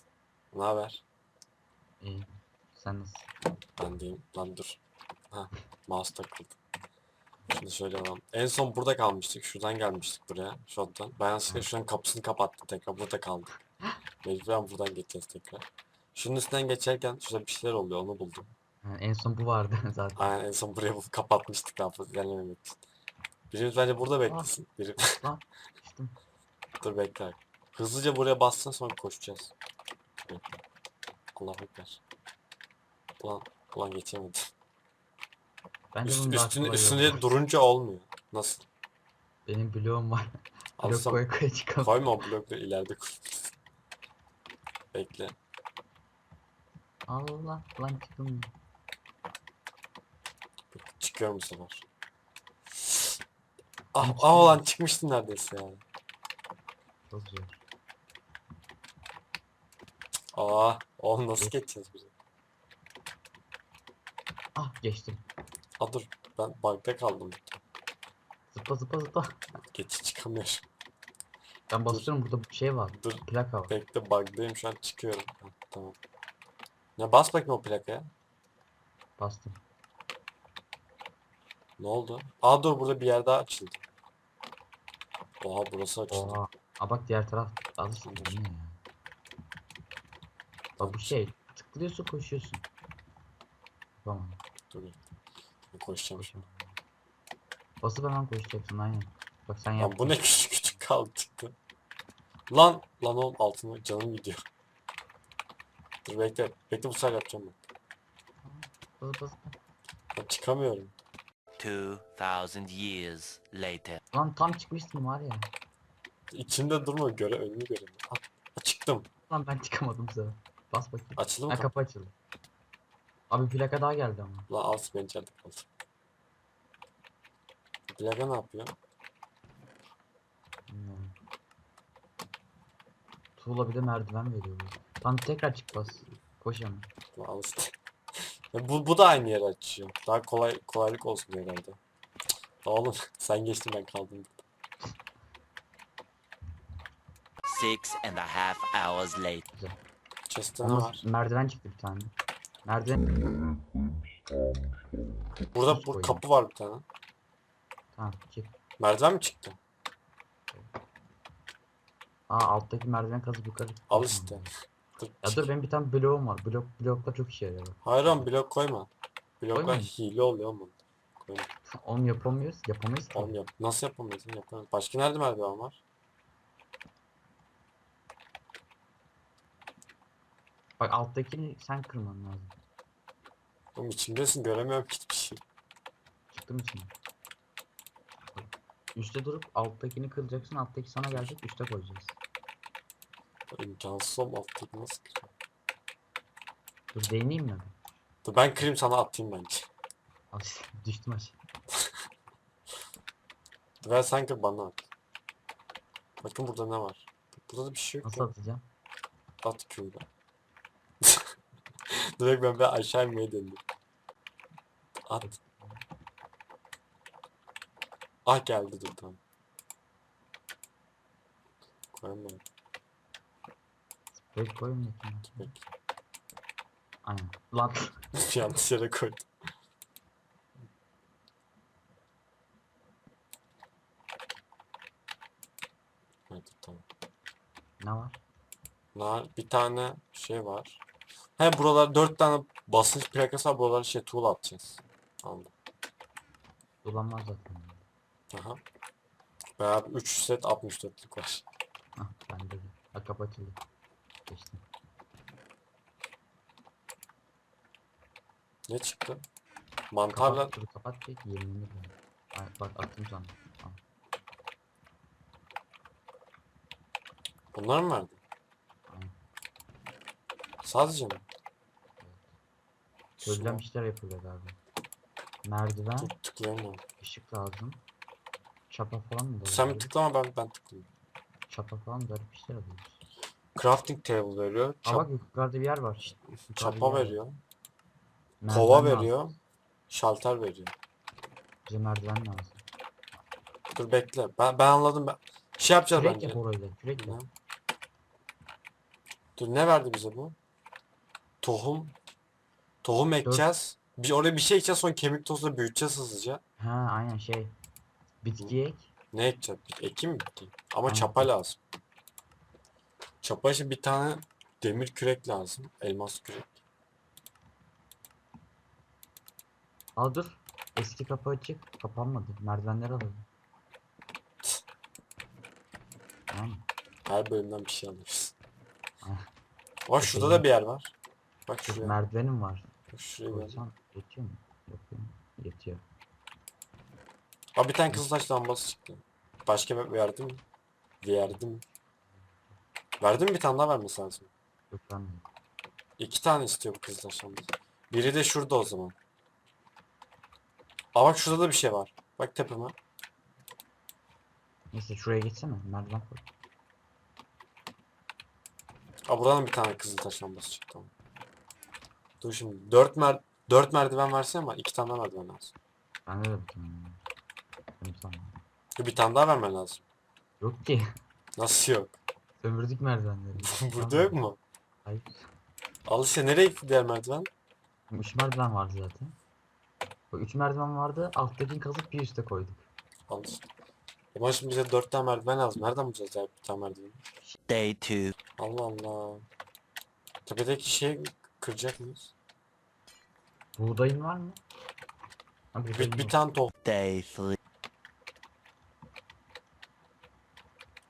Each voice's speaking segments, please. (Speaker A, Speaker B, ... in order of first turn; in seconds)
Speaker A: 0.5-1.0, 3.8-4.8, 5.3-6.6, 7.5-13.5, 14.2-18.5, 20.2-22.8, 23.5-25.2, 26.8-29.5, 30.2-30.5, 31.4-32.0, 33.2-34.5, 36.0-38.7, 40.8-41.2, 41.8-43.5, 44.9-45.4, 50.7-51.9, 53.9-55.8, 60.3-62.1, 65.8-67.6, 69.7-70.7, 72.9-76.0, 77.0-78.1, 81.8-83.8, 85.4-86.4, 88.0-88.4, 90.8-91.2, 94.7-95.0, 95.7-96.3, 99.8-101.5, 102.5-104.4, 106.0-107.7, 110.1-111.0, 116.3-119.1, 121.2-121.7, 124.5-125.7, 127.9-128.8, 137.2-137.7, 138.5-141.8, 142.6-144.4, 150.3-151.0, 155.5-156.8, 158.8-159.6, 163.9-165.5, 167.8-168.9, 169.4-171.5, 173.1-175.8, 183.8-185.4, 193.5-195.3, 198.2-199.7, 203.8-204.9, 206.2-208.3, 209.4-210.1, 212.2-213.6, 218.3-219.2, 221.9-222.4, 225.3-225.6, 228.2-229.3, 236.3-236.8, 238.9-240.8, 241.4-245.5, 248.3-248.6, 249.6-251.4, 258.7-259.2, 259.9-260.5, 267.5-268.2, 270.6-271.3, 273.2-273.6, 276.0-276.8, 279.5-280.9, 283.6-285.1, 286.5-287.4, 288.5-289.4, 289.9-290.7, 293.7-296.4, 297.0-297.3, 299.4-300.4, 301.4-302.0, 302.8-306.4, 309.1-311.6, 313.2-316.6, 327.1-328.3, 329.9-330.9, 331.5-332.0, 332.9-333.6, 337.6-340.4, 341.0-341.6, 343.0-344.3, 346.0-349.0, 350.9-352.8, 359.1-360.9, 362.2-365.5, 368.8-369.8, 371.4-372.0, 373.4-374.4, 375.9-377.3, 383.1-383.5, 384.1-387.0, 388.4-389.2, 390.3-392.1, 395.7-396.5
Speaker B: 2.0-3.3, 18.8-20.3, 24.3-24.5, 25.1-26.2, 35.9-37.3, 39.5-42.1, 47.1-48.5, 54.0-54.6, 57.1-57.6, 64.6-65.2, 68.5-69.4, 71.7-73.7, 79.2-79.6, 86.1-88.8, 90.8-92.7, 94.0-94.4, 96.2-96.8, 97.8-100.2, 108.4-109.5, 114.1-115.5, 119.3-122.1, 123.3-124.5, 130.7-131.1, 133.4-136.9, 150.6-152.1, 152.7-153.0, 155.7-156.2, 157.9-158.6, 162.3-164.5, 165.2-168.3, 169.5-169.9, 171.7-173.3, 180.8-182.5, 186.3-186.9, 188.3-192.2, 196.9-197.8, 200.3-201.4, 208.1-208.6, 215.2-215.8, 224.1-225.5, 227.1-228.0, 237.8-238.2, 246.8-247.9, 252.0-253.6, 254.3-254.6, 260.1-263.8, 268.9-269.1, 272.0-272.3, 273.2-274.6, 275.4-276.1, 277.0-277.8, 278.7-279.9, 281.5-283.0, 284.9-287.2, 288.4-289.1, 291.7-292.6, 295.9-297.2, 306.6-307.5, 308.2-308.9, 310.9-311.3, 320.0-323.2, 326.3-326.6, 329.0-329.3, 330.0-330.5, 331.7-332.7, 333.3-335.8, 342.1-342.6, 344.7-345.3, 354.7-356.2, 366.1-367.0, 367.8-368.4, 370.4-370.8, 372.4-374.2, 374.9-375.2, 377.9-379.2, 380.1-382.7, 393.6-394.4, 395.5-396.1
Speaker C: 111.6-114.0, 147.4-149.4, 387.5-388.1, 396.6-397.4